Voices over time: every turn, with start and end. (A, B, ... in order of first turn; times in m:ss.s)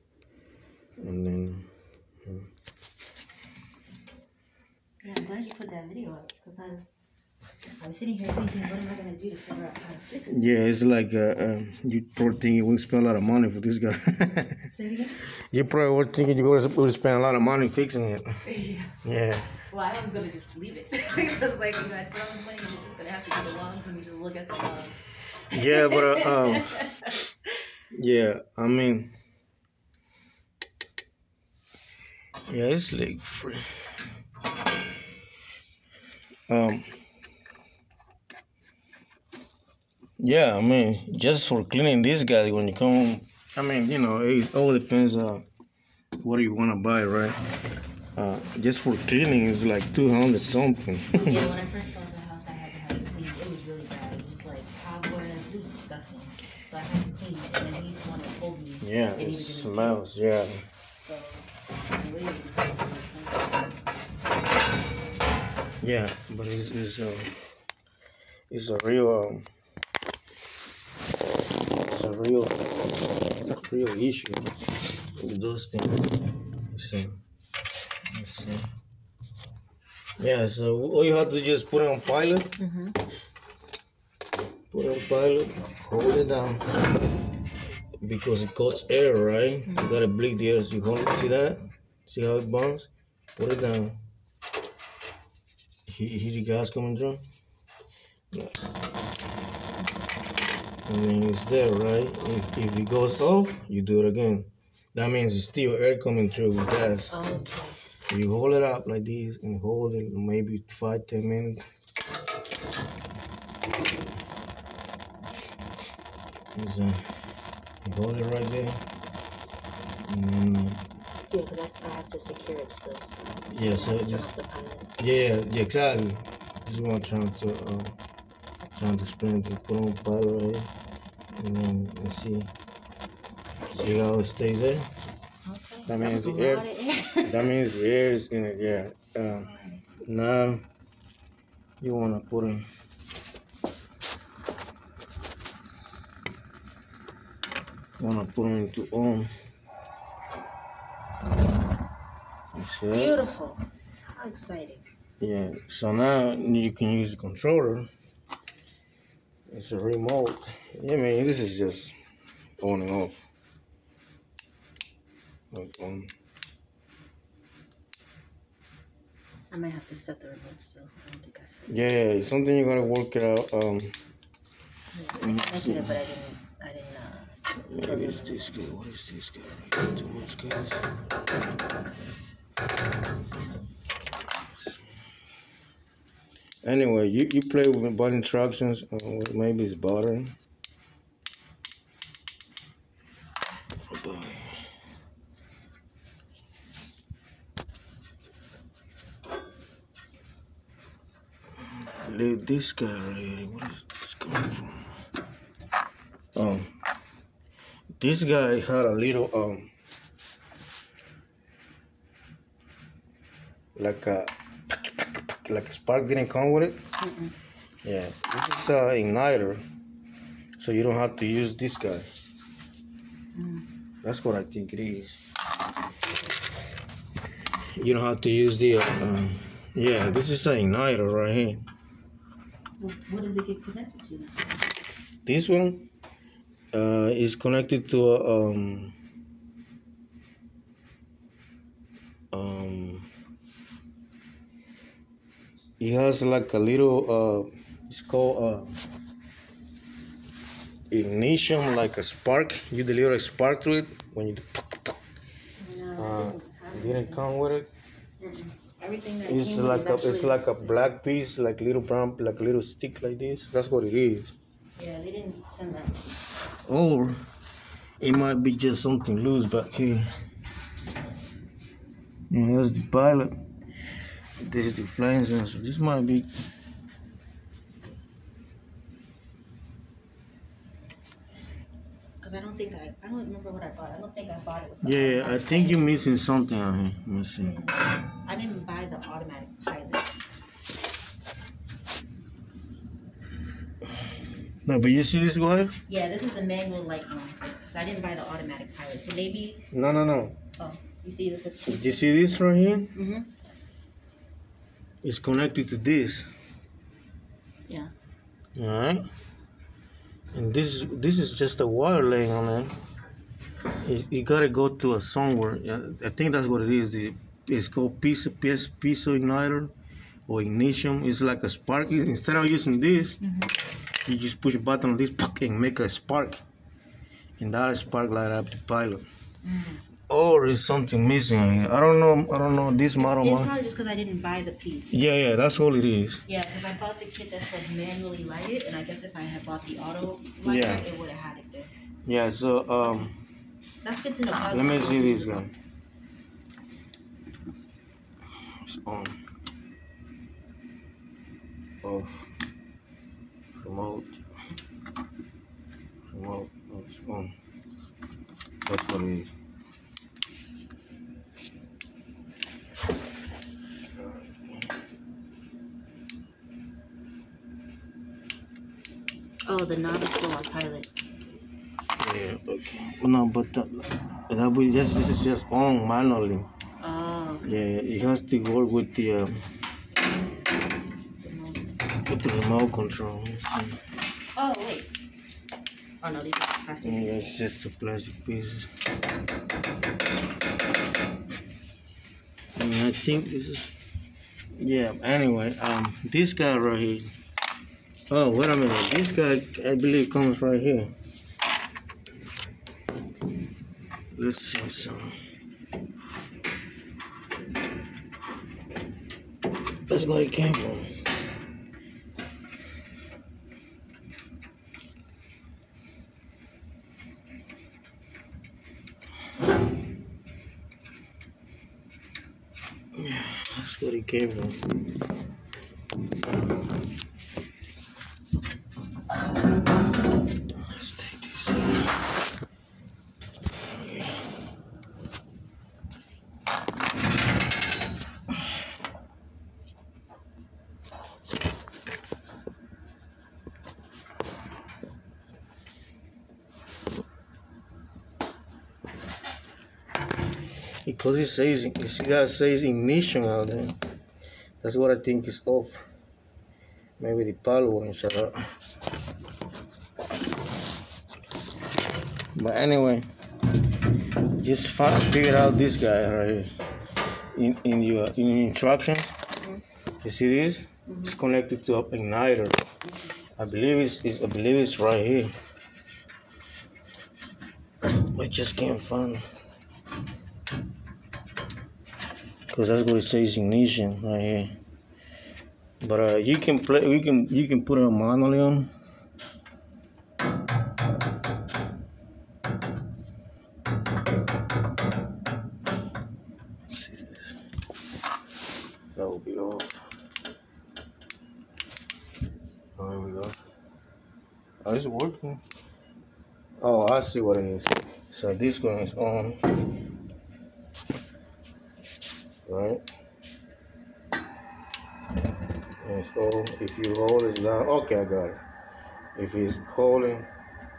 0:01.0-0:01.7 A
0:05.0-0:06.8 B
0:07.8-0:10.4 B
0:10.3-0:14.7 A
0:14.7-0:15.2 B
0:15.3-0:18.3 A
0:18.4-0:19.0 B
0:19.0-0:19.6 A
0:19.6-0:27.5 B
0:25.5-0:26.8 A
0:27.9-0:29.1 A
0:32.5-0:33.6 A
0:36.5-0:36.9 A
0:40.2-0:45.4 A
0:46.2-0:47.4 A
0:48.2-0:51.5 A
0:51.1-1:00.0 B
0:58.8-1:00.7 A
1:00.9-1:03.8 B
1:05.8-1:07.3 A
1:08.5-1:09.5 A
1:11.9-1:12.6 A
1:13.5-1:14.5 A
1:15.2-1:16.1 A
1:16.7-1:17.2 A
1:18.1-1:18.7 A
1:20.2-1:22.6 A
1:22.6-1:23.0 B
1:24.7-1:26.6 A
1:28.0-1:34.0 A
1:29.7-1:29.9 B
1:35.9-1:37.2 A
1:40.9-1:47.2 A
1:47.1-1:47.9 B
1:48.1-1:51.6 A
1:56.6-1:57.0 A
1:57.8-1:58.8 A
2:00.1-2:00.8 A
2:01.3-2:04.9 B
2:03.5-2:04.3 A
2:05.0-2:08.0 A
2:08.8-2:10.7 A
2:11.4-2:12.5 A
2:13.7-2:14.9 A
2:15.4-2:17.4 B
2:15.9-2:16.6 A
2:17.2-2:20.6 A
2:19.5-2:19.8 B
2:21.8-2:22.6 A
2:28.0-2:29.3 A
2:32.5-2:33.2 A
2:32.9-2:34.9 B
2:35.2-2:37.9 A
2:39.5-2:42.0 A
2:42.6-2:43.3 A
2:45.5-2:46.1 A
2:49.5-2:51.8 B
2:51.7-2:54.0 A
2:54.9-2:58.6 B
2:55.2-2:56.0 A
2:57.7-3:00.8 A
3:04.5-3:04.8 A
3:06.6-3:10.4 A
3:13.9-3:14.6 A
3:21.7-3:24.9 A
3:26.4-3:26.7 A
3:28.0-3:29.7 A
3:33.8-3:36.8 A
3:37.0-3:37.4 B
3:37.8-3:39.6 A
3:40.6-3:42.1 A
3:43.3-3:43.7 B
3:44.0-3:45.2 A
3:47.8-3:51.6 A
3:52.8-3:54.5 B
3:55.2-3:55.8 A
3:56.7-3:58.9 A
4:02.3-4:03.1 A
4:05.8-4:08.7 A
4:10.9-4:15.0 A
4:15.6-4:17.2 B
4:16.0-4:17.7 A
4:18.2-4:20.9 B
4:19.2-4:24.4 A
4:24.8-4:26.0 B
4:26.6-4:27.2 A
4:28.0-4:30.1 A
4:32.3-4:33.3 A
4:34.4-4:36.3 A
4:42.2-4:45.9 B
4:44.8-4:47.6 A
4:47.4-4:50.1 B
4:54.6-4:55.8 A
4:55.9-4:59.7 B
4:59.7-5:00.4 A
5:00.6-5:02.1 B
5:01.7-5:02.9 A
5:03.0-5:03.3 B
5:05.0-5:06.3 A
5:08.6-5:09.1 A
5:10.3-5:12.7 A
5:13.8-5:19.7 A
5:20.3-5:23.2 A
5:23.2-5:23.6 B
5:24.0-5:26.4 A
5:27.4-5:29.0 A
5:29.4-5:29.8 B
5:30.1-5:33.5 A
5:32.9-5:35.0 B
5:34.9-5:36.2 A
5:36.3-5:41.7 B
5:40.4-5:40.9 A
5:42.0-5:43.2 A
5:42.8-5:43.1 B
5:43.8-5:45.4 B
5:44.5-5:45.5 A
5:48.6-5:49.2 A
5:51.8-5:52.3 A
5:53.6-5:54.2 A
5:56.1-5:57.3 A
5:58.7-5:59.3 A
6:04.0-6:04.7 A
6:09.5-6:10.9 B
6:12.0-6:16.5 A
6:16.8-6:17.5 B
6:17.4-6:19.3 A
6:21.2-6:21.8 B
6:22.0-6:23.8 A
6:24.4-6:24.9 B
6:26.0-6:27.5 B
6:26.8-6:28.7 A
6:32.6-6:33.7 A
6:34.6-6:37.1 A
6:38.1-6:40.9 A
6:44.1-6:45.2 A
6:49.9-6:50.9 A
7:03.0-7:04.6 A
7:10.6-7:11.9 A
7:13.7-7:14.2 A
7:30.8-7:33.8 A
7:34.6-7:35.8 A
7:37.0-7:38.4 A
7:42.4-7:43.1 A
7:44.3-7:46.5 A
7:47.3-7:49.2 A
7:49.4-7:49.6 B
7:50.0-7:52.6 A
7:50.9-7:51.1 B
7:52.8-7:53.1 B
7:53.4-7:55.3 A
7:57.8-7:59.2 A
8:02.5-8:04.6 A
8:05.8-8:08.7 A
8:16.7-8:17.4 A
8:19.0-8:19.9 A
8:22.8-8:23.4 A
8:24.6-8:25.4 A
8:26.6-8:29.4 A
8:32.5-8:32.8 A
8:35.8-8:38.4 A
8:39.2-8:40.3 A